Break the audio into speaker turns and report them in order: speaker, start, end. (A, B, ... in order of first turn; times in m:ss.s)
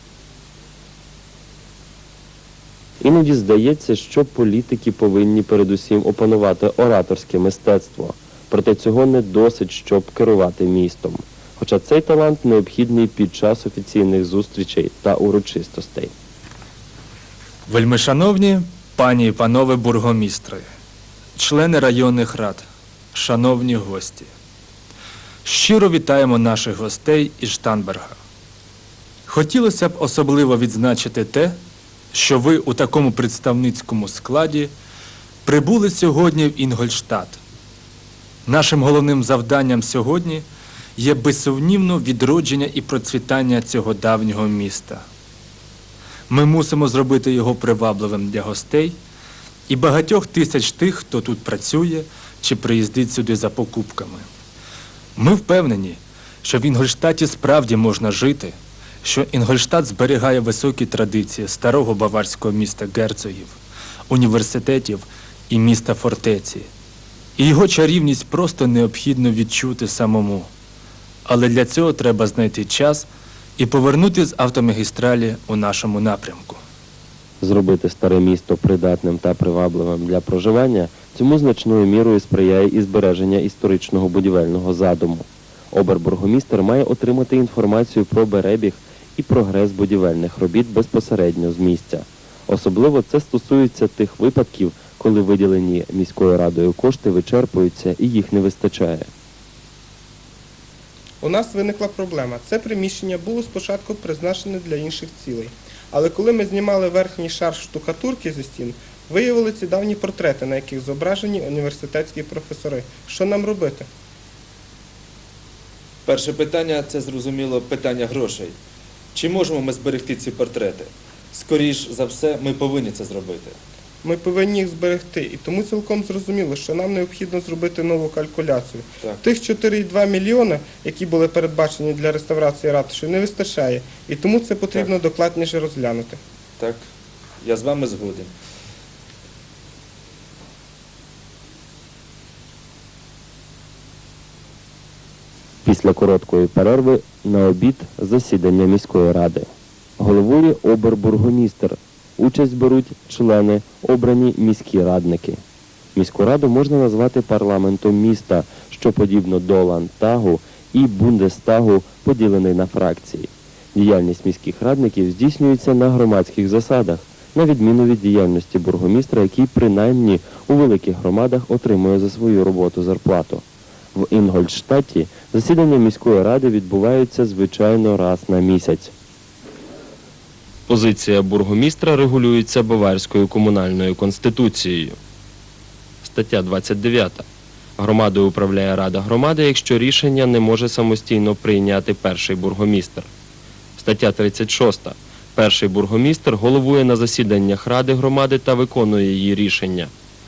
0:03.0-0:16.1 A
0:17.7-0:20.6 B
0:21.4-0:24.3 B
0:25.4-0:28.2 B
0:29.3-0:31.6 B
0:32.1-0:34.7 B
0:35.4-0:37.4 B
0:38.4-0:40.4 B
0:41.0-0:45.0 B
0:46.3-0:49.0 B
0:49.7-0:54.3 B
0:55.2-1:03.6 B
1:04.1-1:06.7 B
1:07.4-1:10.5 B
1:11.2-1:13.1 B
1:13.6-1:16.6 B
1:17.4-1:39.1 A
1:41.2-1:53.9 C
1:56.0-1:58.5 B
1:59.1-2:03.6 B
2:04.0-2:16.2 C
2:17.4-2:18.3 B
2:25.6-2:35.4 A
2:35.9-2:53.4 A
2:53.9-2:58.9 A
3:00.7-3:05.0 A
3:06.0-3:07.2 A
3:07.8-3:13.1 A
3:13.8-3:19.9 A